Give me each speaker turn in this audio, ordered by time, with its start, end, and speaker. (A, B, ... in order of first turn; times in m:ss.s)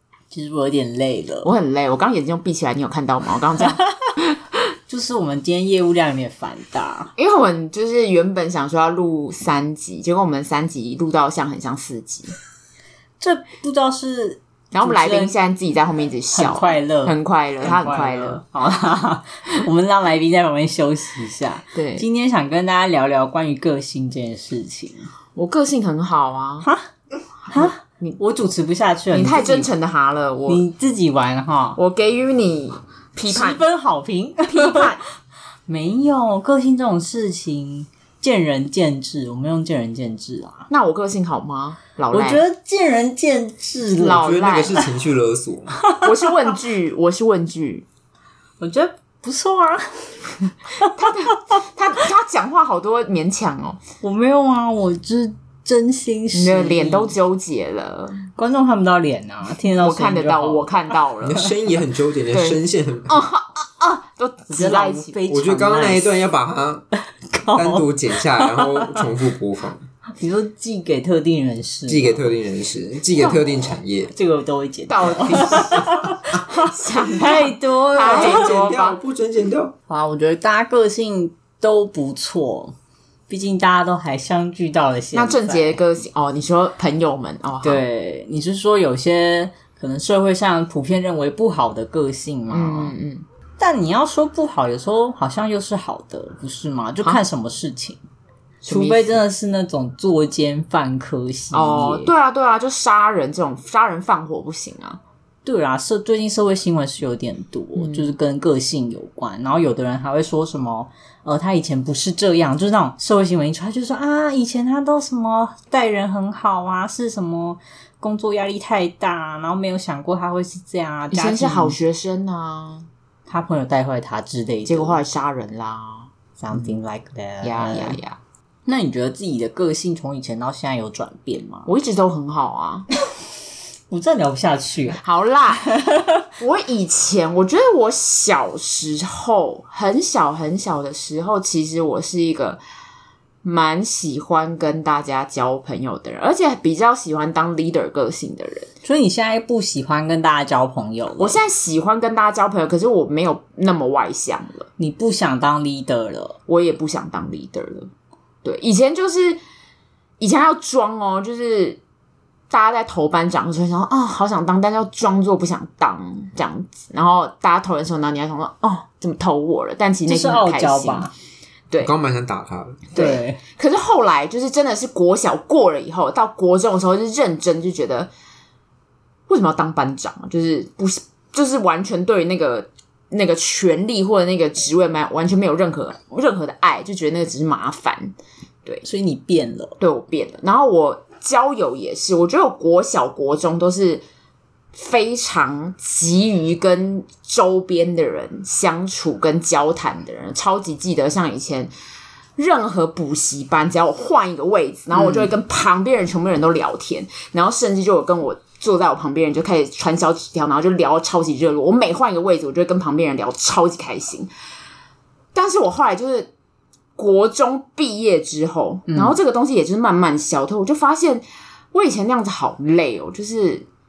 0:00.3-0:01.5 A
0:01.4-0:04.2 B
0:04.9-0:07.1 A
0:07.2-0:12.3 B
0:13.2-0:15.3 A
0:14.7-0:18.4 B
0:16.3-0:25.1 A
0:21.7-0:22.0 B
0:25.4-0:26.7 B
0:26.6-0:26.9 A
0:27.5-0:29.7 A
0:27.5-0:28.2 B
0:29.1-0:30.6 B
0:30.5-0:31.8 A
0:31.8-0:33.6 B
0:33.3-0:34.9 A
0:34.5-0:35.0 B
0:35.7-0:40.7 A
0:40.7-0:42.4 B
0:42.1-0:44.8 A
0:44.0-0:44.8 B
0:44.1-0:45.8 C
0:45.8-0:46.5 A
0:46.0-0:47.8 B
0:48.6-0:51.3 A
0:51.0-0:53.8 B
0:54.0-0:57.1 A
0:56.3-0:58.2 B
0:58.3-1:01.4 A
0:59.7-1:01.5 B
1:01.2-1:03.2 C
1:02.3-1:05.2 B
1:04.5-1:06.1 A
1:05.3-1:06.8 C
1:07.3-1:09.1 A
1:07.5-1:09.8 C
1:10.2-1:12.2 A
1:11.9-1:14.1 C
1:13.2-1:13.5 B
1:14.1-1:18.5 A
1:14.9-1:15.9 B
1:16.5-1:19.0 B
1:18.0-1:19.7 C
1:19.9-1:22.7 A
1:23.3-1:25.8 A
1:25.1-1:27.8 B
1:27.6-1:32.9 A
1:32.5-1:33.2 B
1:33.6-1:38.0 A
1:38.6-1:39.2 B
1:38.7-1:42.1 A
1:41.5-1:45.0 B
1:45.4-2:01.8 A
1:47.8-1:48.1 B
2:01.1-2:02.9 B
2:03.3-2:05.0 A
2:04.6-2:06.7 B
2:06.4-2:08.0 A
2:07.4-2:08.2 B
2:08.6-2:11.7 A
2:11.7-2:12.9 B
2:13.9-2:15.0 A
2:15.0-2:15.7 B
2:15.6-2:16.2 A
2:16.4-2:22.6 B
2:23.4-2:28.7 B
2:28.8-2:31.4 A
2:31.2-2:34.7 B
2:34.8-2:36.4 A
2:36.5-2:37.9 B
2:38.4-2:39.4 B
2:40.2-2:41.8 B
2:42.5-2:51.1 B
2:50.1-2:51.1 A
2:51.8-2:52.9 C
2:52.9-2:53.4 A
2:52.9-2:58.1 B
2:59.3-3:08.8 B
3:08.8-3:09.8 A
3:09.8-3:14.0 B
3:14.7-3:21.7 B
3:22.4-3:34.3 B
3:25.0-3:25.3 A
3:35.3-3:36.3 B
3:37.0-3:43.6 B
3:38.9-3:39.2 A